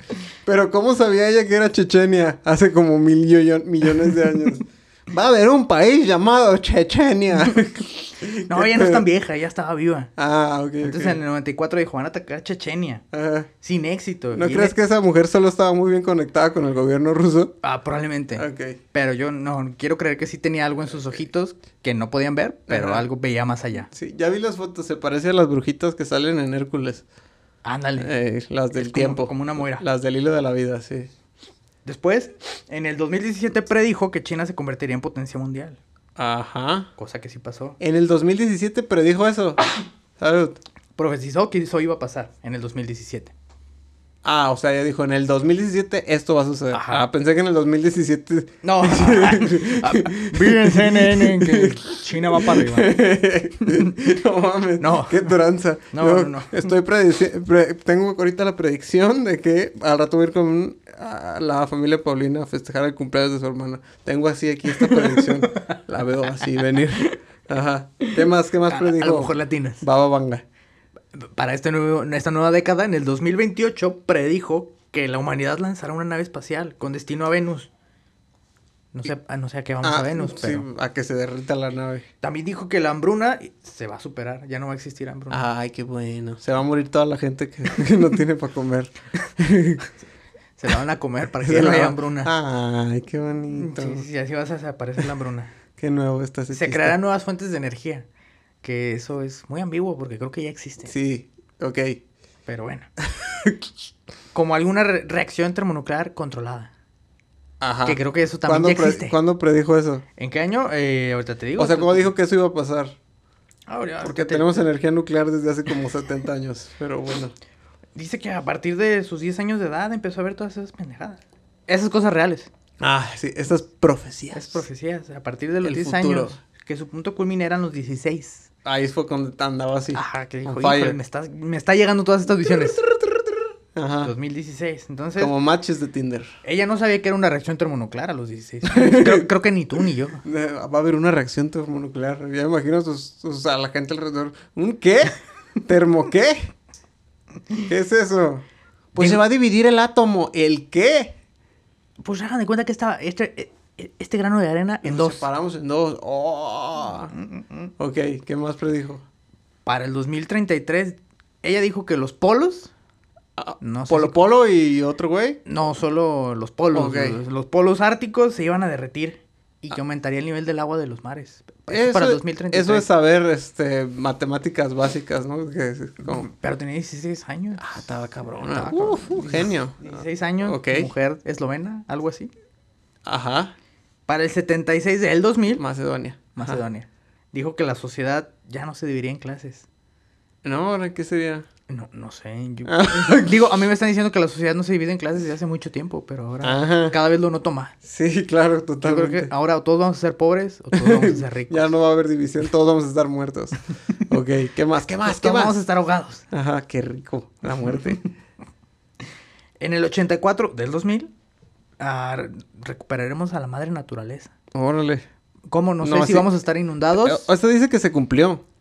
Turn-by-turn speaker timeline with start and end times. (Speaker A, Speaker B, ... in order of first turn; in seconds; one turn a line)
Speaker A: 0.5-9.1
Speaker B: 8.3-10.1
Speaker A: 10.2-11.2
Speaker B: 10.8-13.0
Speaker A: 13.1-13.5
Speaker B: 13.6-14.8
Speaker A: 14.3-17.6
Speaker B: 17.6-23.9
Speaker A: 18.4-18.8
Speaker A: 22.7-23.1
Speaker A: 23.9-27.0
Speaker B: 27.6-28.1
Speaker A: 28.0-31.1
Speaker B: 28.7-29.9
Speaker B: 31.9-35.8
Speaker A: 36.2-36.9
Speaker B: 37.0-37.8
Speaker A: 37.8-40.6
Speaker B: 41.0-43.3
Speaker A: 44.2-70.4
Speaker B: 46.7-47.1
Speaker B: 48.6-53.0
Speaker B: 53.6-54.0
Speaker B: 54.8-55.4
Speaker B: 55.9-56.7
Speaker B: 64.8-65.7
Speaker B: 68.7-69.8
Speaker B: 71.2-77.7
Speaker B: 78.9-80.7
Speaker A: 79.8-82.1
Speaker B: 82.2-85.5
Speaker A: 85.3-89.9
Speaker B: 90.6-92.3
Speaker A: 91.4-94.1
Speaker B: 93.5-95.5
Speaker A: 95.8-97.0
Speaker B: 96.5-98.1
Speaker B: 98.6-100.9
Speaker A: 100.9-102.0
Speaker B: 102.5-102.9
Speaker A: 103.1-103.6
Speaker B: 104.3-106.7
Speaker A: 107.6-110.0
Speaker B: 107.9-109.2
Speaker B: 110.2-112.1
Speaker A: 111.6-113.0
Speaker B: 113.7-114.7
Speaker A: 114.0-117.3
Speaker B: 118.0-122.5
Speaker A: 122.8-124.7
Speaker B: 124.3-128.5
Speaker A: 125.6-126.4
Speaker A: 128.7-131.0
Speaker B: 129.9-132.8
Speaker A: 132.8-134.1
Speaker B: 134.0-135.3
Speaker A: 135.2-136.3
Speaker B: 136.4-140.2
Speaker A: 138.6-139.3
Speaker A: 140.2-146.5
Speaker A: 147.6-151.2
Speaker B: 152.0-155.2
Speaker A: 154.8-157.1
Speaker B: 157.1-157.7
Speaker A: 157.8-159.1
Speaker B: 159.7-162.7
Speaker A: 163.4-165.4
Speaker B: 163.6-164.2
Speaker B: 165.5-172.9
Speaker A: 166.7-167.2
Speaker A: 171.7-176.3
Speaker B: 176.1-177.6
Speaker A: 177.6-180.9
Speaker B: 178.5-182.3
Speaker A: 183.1-183.6
Speaker B: 184.1-185.6
Speaker A: 185.6-186.6
Speaker B: 186.4-189.7
Speaker A: 190.4-191.5
Speaker B: 191.7-197.8
Speaker A: 192.7-193.4
Speaker A: 196.4-197.0
Speaker A: 197.8-199.3
Speaker B: 198.8-201.7
Speaker A: 200.7-205.6
Speaker B: 205.0-206.2
Speaker A: 206.3-208.0
Speaker B: 209.6-211.1
Speaker B: 211.8-214.3
Speaker A: 214.5-215.0
Speaker B: 215.5-217.3
Speaker A: 215.8-216.3
Speaker A: 216.9-218.4